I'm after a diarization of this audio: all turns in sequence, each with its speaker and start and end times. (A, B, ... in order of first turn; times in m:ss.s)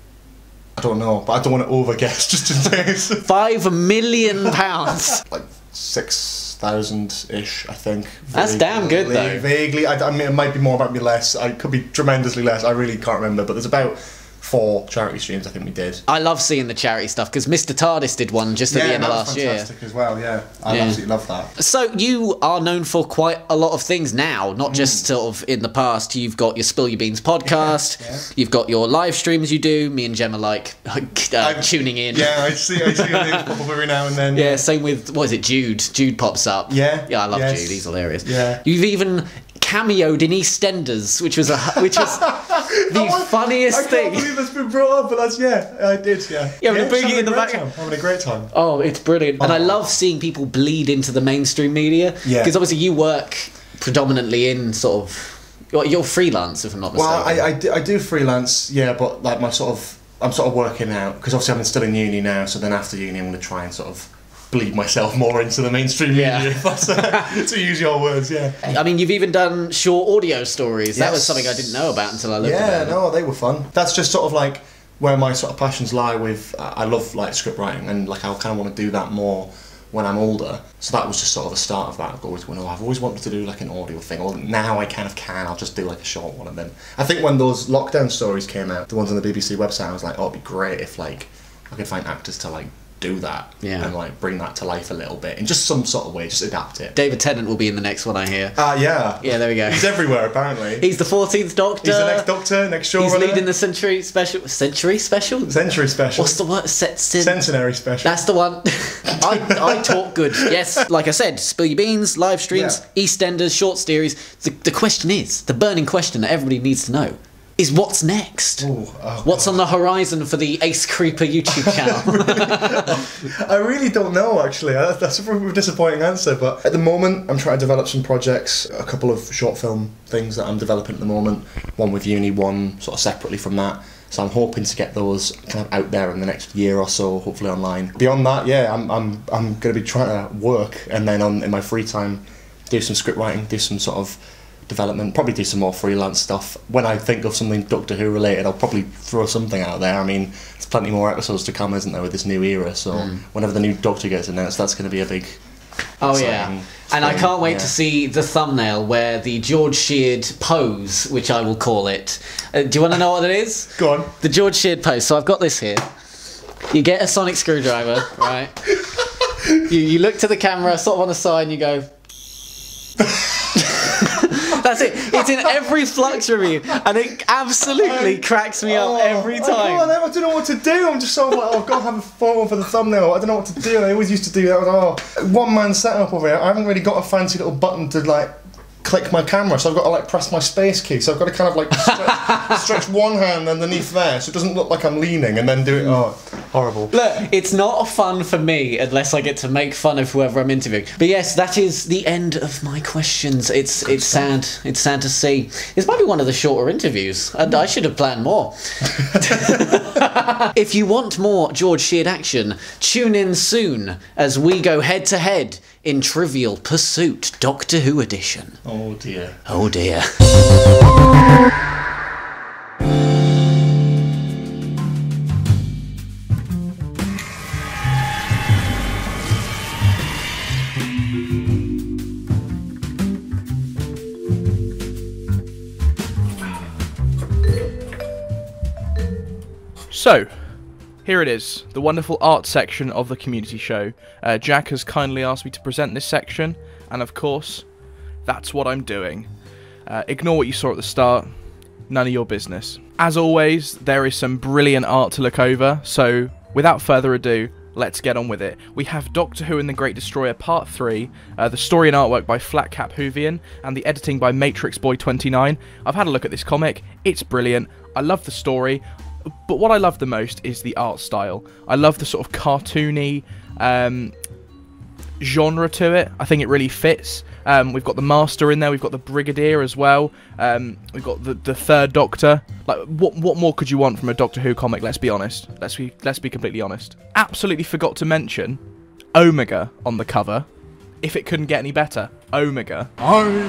0:00.8-0:03.3 A
0:03.2-0:05.2 B
0:05.2-0:16.0 A
0:08.3-0:09.5 B
0:16.1-0:19.7 B
0:18.7-0:21.5 A
0:20.7-0:21.0 B
0:21.6-0:33.4 B
0:24.7-0:25.1 A
0:27.5-0:28.2 A
0:31.4-0:34.6 A
0:34.3-0:44.3 B
0:36.7-0:38.6 A
0:41.8-0:48.5 A
0:46.6-0:47.7 B
0:48.5-0:57.5 B
0:49.4-0:49.8 A
0:52.2-0:52.6 A
0:56.9-1:08.8 A
1:06.1-1:07.4 B
1:08.6-1:13.0 B
1:11.0-1:37.0 A
1:33.6-1:33.9 B
1:37.0-1:38.6 B
1:38.6-1:40.9 A
1:39.2-1:40.0 B
1:40.8-1:42.3 B
1:41.8-1:43.5 A
1:43.0-1:45.6 B
1:45.5-1:46.4 A
1:46.2-1:47.5 B
1:47.2-1:48.2 A
1:48.0-1:58.7 B
1:49.2-1:50.8 A
1:52.5-1:52.8 A
1:58.6-1:59.6 A
1:59.2-2:03.0 B
2:01.5-2:35.4 A
2:32.9-2:33.2 B
2:36.0-2:45.8 B
2:36.0-2:37.7 A
2:43.8-2:44.1 A
2:46.7-2:48.6 B
2:49.6-2:51.9 B
2:53.2-2:53.6 A
2:53.6-2:59.9 B
2:55.0-2:55.3 A
2:57.8-3:17.0 A
3:11.8-3:12.6 B
3:16.9-3:38.6 B
3:23.8-3:24.3 A
3:29.2-3:29.7 A
3:38.6-3:39.4 A
3:39.5-3:40.1 B
3:59.9-4:00.5 C
4:01.0-4:07.7 C
4:08.3-4:09.3 C
4:09.9-4:11.3 C
4:11.9-4:28.8 C
4:29.5-4:34.2 C
4:35.2-4:48.6 C
4:49.2-4:50.5 C
4:51.0-4:52.9 C